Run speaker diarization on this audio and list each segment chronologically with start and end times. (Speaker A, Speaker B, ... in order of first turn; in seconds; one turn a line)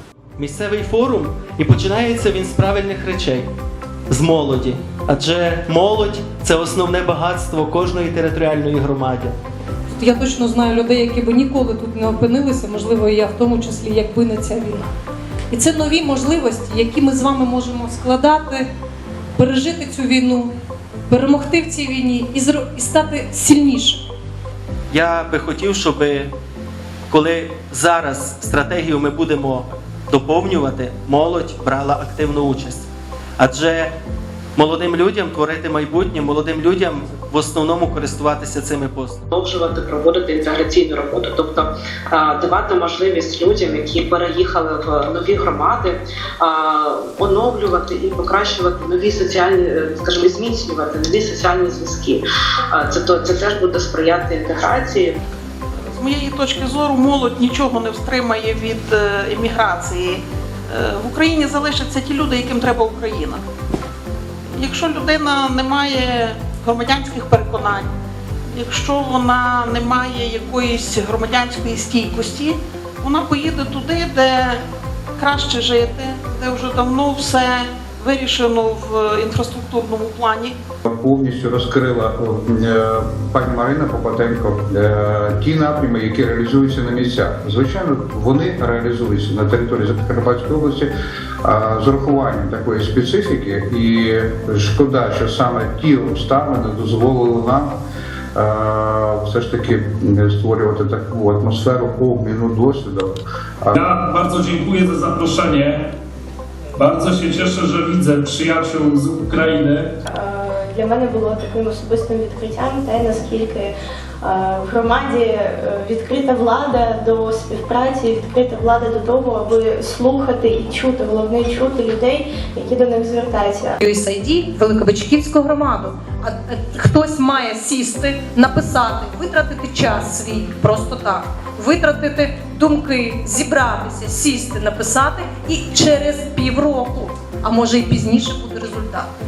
Speaker A: 0.4-3.5
Speaker A: 4.1-9.3
Speaker B: 9.9-14.9
Speaker B: 15.5-18.7
Speaker B: 19.4-20.5
Speaker B: 21.1-24.0
Speaker A: 24.9-26.3
Speaker A: 27.1-33.9
Speaker A: 34.5-39.2
Speaker C: 39.4-52.2
Speaker C: 52.7-55.1
Speaker D: 55.9-60.2
Speaker D: 60.7-63.4
Speaker D: 64.6-67.9
Speaker D: 68.5-74.5
Speaker D: 75.2-80.5
Speaker E: 80.8-90.9
Speaker E: 91.4-97.7
Speaker E: 98.3-103.8
Speaker F: 103.8-105.6
Speaker F: 106.8-109.8
Speaker G: 110.0-123.8
Speaker B: 123.8-139.1